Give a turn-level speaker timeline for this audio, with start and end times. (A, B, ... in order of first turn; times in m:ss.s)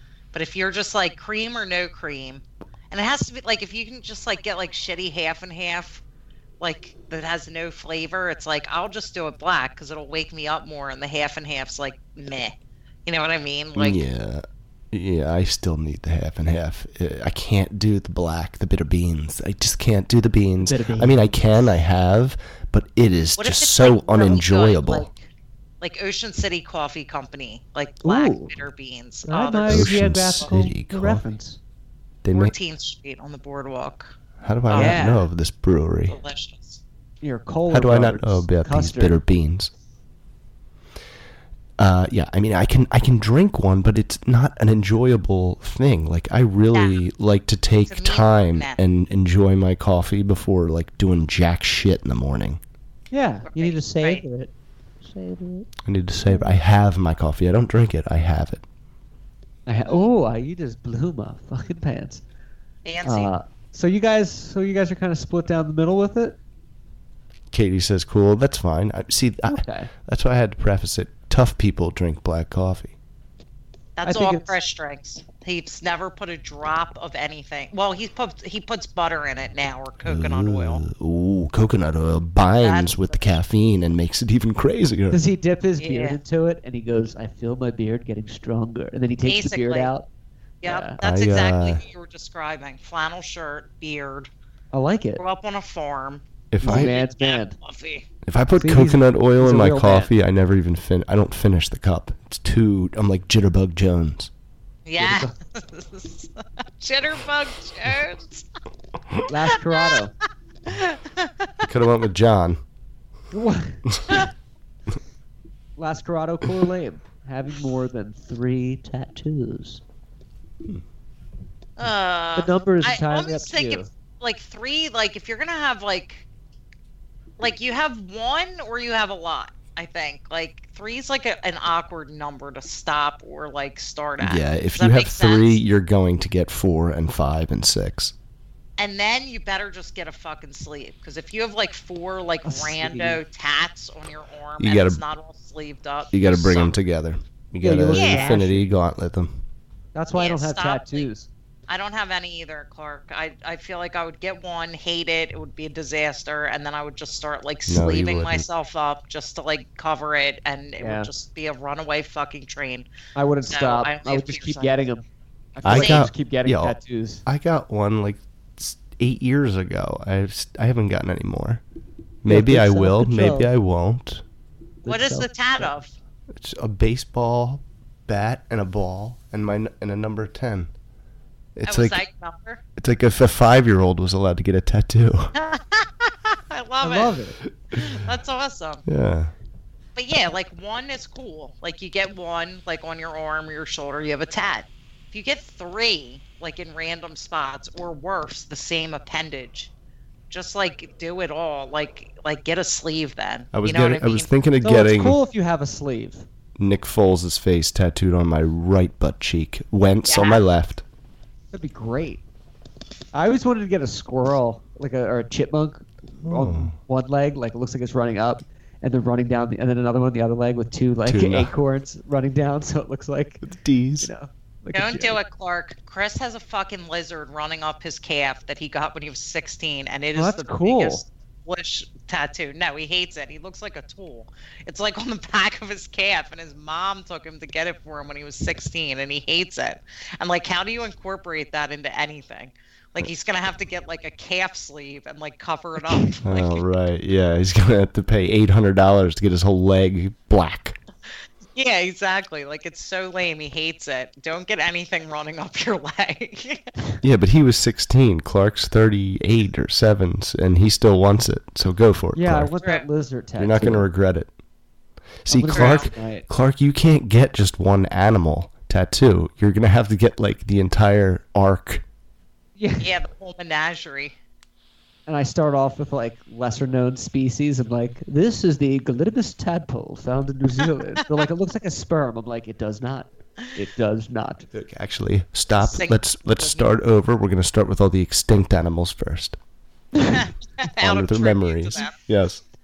0:00.3-0:06.0 A
0:06.6-0:12.6 A
0:13.1-0:14.0 A
0:13.8-0:25.1 B
0:20.6-0:21.4 C
0:23.4-0:25.2 A
0:25.8-0:30.5 A
0:28.0-0:28.6 C
0:29.3-0:31.6 C
0:29.7-0:31.2 B
0:32.2-0:32.5 B
0:32.3-0:34.1 A
0:34.4-0:36.2 B
0:34.7-0:35.2 A
0:34.7-0:35.2 C
0:36.1-0:36.8 A
0:37.2-0:39.2 C
0:37.7-0:39.7 B
0:41.8-0:52.6 B
0:46.7-0:47.0 A
0:47.9-0:48.8 A
0:53.1-0:54.5 C
0:53.5-0:54.2 A
0:55.0-0:55.7 C
0:55.8-0:58.6 B
0:59.7-1:02.2 C
1:02.8-1:03.3 A
1:03.0-1:06.4 C
1:07.5-1:13.0 B
1:09.5-1:09.9 C
1:14.0-1:20.8 A
1:14.0-1:14.5 C
1:20.0-1:25.2 B
1:22.6-1:23.1 A
1:25.1-1:30.1 C
1:25.8-1:26.2 A
1:29.2-1:29.9 A
1:30.6-1:34.3 A
1:30.6-1:31.0 C
1:31.0-1:31.8 B
1:34.7-1:35.2 C
1:35.2-1:38.1 A
1:36.5-1:36.9 B
1:36.6-1:37.6 C
1:38.3-1:44.3 B
1:38.6-1:40.1 C
1:44.9-1:48.5 A
1:45.0-1:45.3 C
1:49.3-1:50.1 C
1:49.7-1:50.0 A
1:50.7-1:51.5 A
1:51.6-1:52.6 B
1:53.3-1:53.8 C
1:55.8-1:59.8 C
2:01.8-2:06.3 A
2:02.4-2:03.9 C
2:07.4-2:15.6 A
2:14.2-2:18.1 B
2:18.8-2:26.8 A
2:22.4-2:23.2 C
2:24.6-2:25.0 B
2:26.1-2:29.4 B
2:27.6-2:28.7 C
2:27.9-2:28.3 A
2:30.0-2:31.3 C
2:30.2-2:31.1 A
2:31.7-2:42.9 A
2:37.7-2:38.4 B
2:40.8-2:41.1 C
2:43.2-2:45.0 C
2:43.5-2:44.8 A
2:45.6-2:47.2 C
2:45.6-2:51.6 B
2:45.7-2:46.1 A
2:52.2-2:54.2 B
2:52.3-2:53.5 C
2:54.8-2:55.7 C
2:54.9-2:55.9 A
2:56.3-3:00.7 B
3:01.6-3:02.0 B
3:01.7-3:02.6 A
3:02.8-3:05.3 B
3:05.4-3:07.2 A
3:06.8-3:07.4 C
3:07.7-3:08.8 A
3:08.9-3:09.3 B
3:10.0-3:19.7 A
3:20.3-3:24.3 A
3:23.5-3:25.2 B
3:24.6-3:26.3 C
3:26.6-3:30.8 B
3:30.0-3:30.4 A
3:31.5-3:32.2 C
3:33.1-3:43.4 C
3:36.2-3:36.8 B
3:41.1-3:41.5 B
3:43.4-3:44.1 B
3:44.0-3:45.2 C
3:44.7-4:06.6 A
3:50.2-3:51.0 C
4:06.2-4:10.8 B
4:11.6-4:16.6 A
4:17.0-4:22.5 B
4:22.2-4:23.9 C
4:23.4-4:24.3 B
4:25.2-4:31.8 B
4:25.3-4:26.3 C
4:25.5-4:25.9 A
4:32.6-4:32.9 C
4:32.8-4:34.2 A
4:35.1-4:44.5 C
4:44.5-4:49.4 B
4:45.6-4:46.7 A
4:50.0-4:50.3 C
4:50.1-4:52.0 A
4:50.8-4:52.4 B